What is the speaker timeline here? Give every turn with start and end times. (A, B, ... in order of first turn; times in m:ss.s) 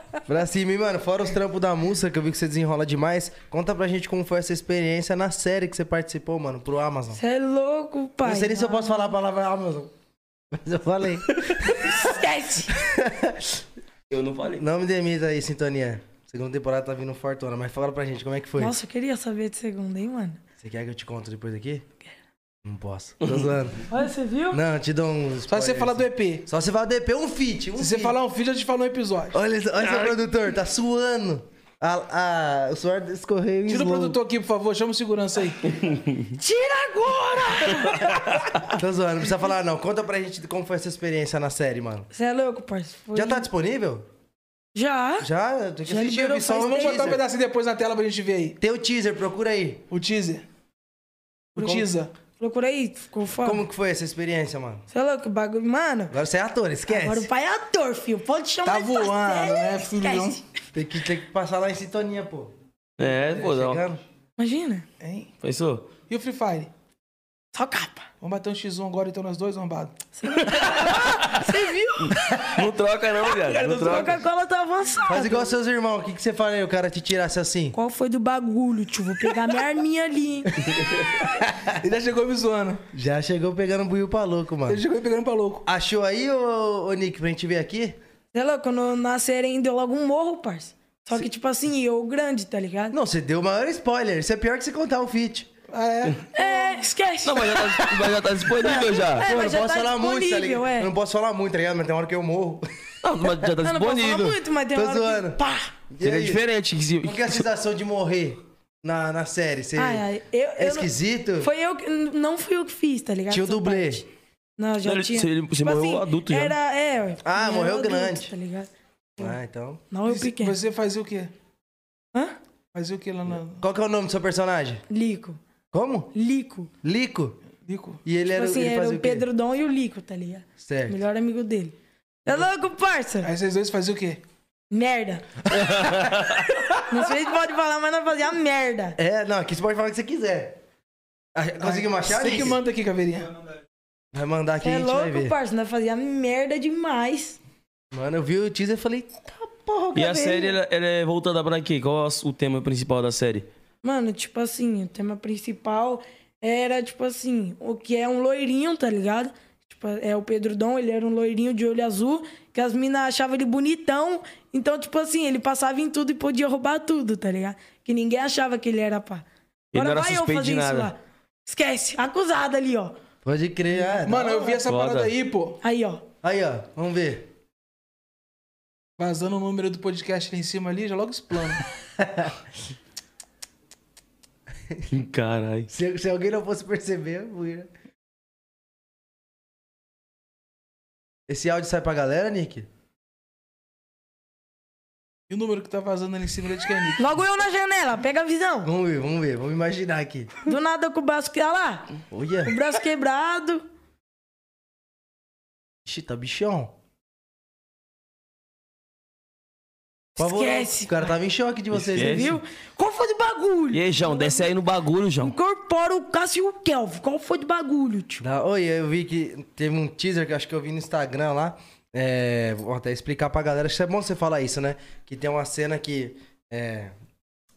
0:00.3-0:07.2 A
0:07.1-0:09.1 B
0:08.2-0:09.9 A
0:10.5-0:12.0 A
0:11.7-0:12.8 B
0:12.7-0:13.6 A
0:14.1-0:14.6 C
0:14.5-0:18.7 A
0:18.6-0:20.4 B
0:20.6-0:21.8 A
0:22.6-0:23.9 A
0:23.2-0:23.5 C
0:23.9-0:24.6 B
0:24.5-0:28.2 A
0:25.5-0:26.4 D
0:27.8-0:29.4 D
0:29.3-0:34.2 A
0:33.7-0:35.7 D
0:35.8-0:36.3 C
0:36.4-0:38.4 B
0:38.7-0:42.1 A
0:42.1-0:43.5 B
0:43.1-0:44.0 A
0:44.7-0:45.3 B
0:45.2-0:47.2 A
0:45.9-0:47.2 B
0:46.5-0:48.6 D
0:48.6-0:49.8 A
0:49.9-0:50.4 D
0:51.5-0:52.1 D
0:51.6-0:51.9 A
0:52.4-0:53.6 B
0:53.4-0:54.8 A
0:54.9-0:56.1 B
0:56.1-0:57.3 A
0:56.9-1:00.4 B
0:58.6-1:00.4 D
1:00.7-1:02.5 A
1:03.0-1:03.8 C
1:03.1-1:04.0 A
1:04.4-1:04.8 B
1:05.0-1:05.3 D
1:05.4-1:05.9 C
1:06.1-1:06.7 D
1:07.5-1:08.1 B
1:08.2-1:09.9 D
1:10.2-1:12.2 B
1:10.5-1:11.4 C
1:12.0-1:14.2 C
1:13.2-1:14.0 D
1:13.6-1:15.5 B
1:15.1-1:17.7 A
1:17.7-1:21.4 B
1:21.4-1:21.7 A
1:21.6-1:22.8 D
1:22.9-1:24.8 A
1:24.7-1:25.6 D
1:25.6-1:28.0 A
1:28.3-1:32.9 B
1:32.9-1:35.5 A
1:35.7-1:36.7 D
1:36.3-1:37.8 B
1:37.2-1:39.3 C
1:38.6-1:42.6 A
1:38.8-1:40.9 B
1:43.0-1:44.4 C
1:43.6-1:45.7 B
1:44.7-1:45.4 A
1:45.9-1:46.4 A
1:46.0-1:47.4 C
1:47.0-1:50.0 A
1:49.8-1:54.0 B
1:50.6-1:51.5 A
1:53.3-1:54.0 A
1:54.6-1:58.7 B
1:54.8-1:56.5 C
1:57.2-1:58.3 A
1:59.2-1:59.8 A
1:59.9-2:00.6 B
2:00.0-2:01.3 D
2:02.7-2:03.6 D
2:03.6-2:04.8 A
2:04.9-2:05.4 B
2:05.7-2:06.1 A
2:06.1-2:06.7 B
2:06.8-2:07.4 A
2:07.6-2:08.0 D
2:08.0-2:09.2 A
2:08.3-2:11.7 B
2:10.6-2:11.0 A
2:12.2-2:13.3 B
2:13.2-2:14.2 D
2:14.7-2:15.6 B
2:15.5-2:16.5 C
2:15.6-2:16.1 A
2:16.7-2:19.0 B
2:19.0-2:20.6 A
2:21.3-2:22.6 A
2:21.6-2:23.3 D
2:24.1-2:25.3 A
2:24.6-2:27.4 B
2:27.9-2:30.6 A
2:29.9-2:33.5 C
2:33.8-2:52.9 B
2:49.7-2:50.9 C
2:53.2-2:54.6 A
2:54.0-2:55.6 D
2:54.6-2:55.1 C
2:55.6-2:56.0 B
2:56.2-2:57.2 A
2:59.0-3:01.6 D
3:02.0-3:02.4 A
3:04.9-3:05.7 C
3:05.7-3:07.7 A
3:11.3-3:12.7 A
3:15.3-3:17.0 D
3:17.0-3:18.7 B
3:18.6-3:20.4 A
3:20.4-3:21.9 B
3:22.1-3:22.5 A
3:22.4-3:23.6 B
3:25.8-3:26.7 A
3:30.2-3:32.4 A
3:30.2-3:31.1 B
3:31.8-3:32.4 C
3:32.0-3:34.5 B
3:33.7-3:35.3 C
3:35.2-3:38.2 B
3:38.2-3:46.9 A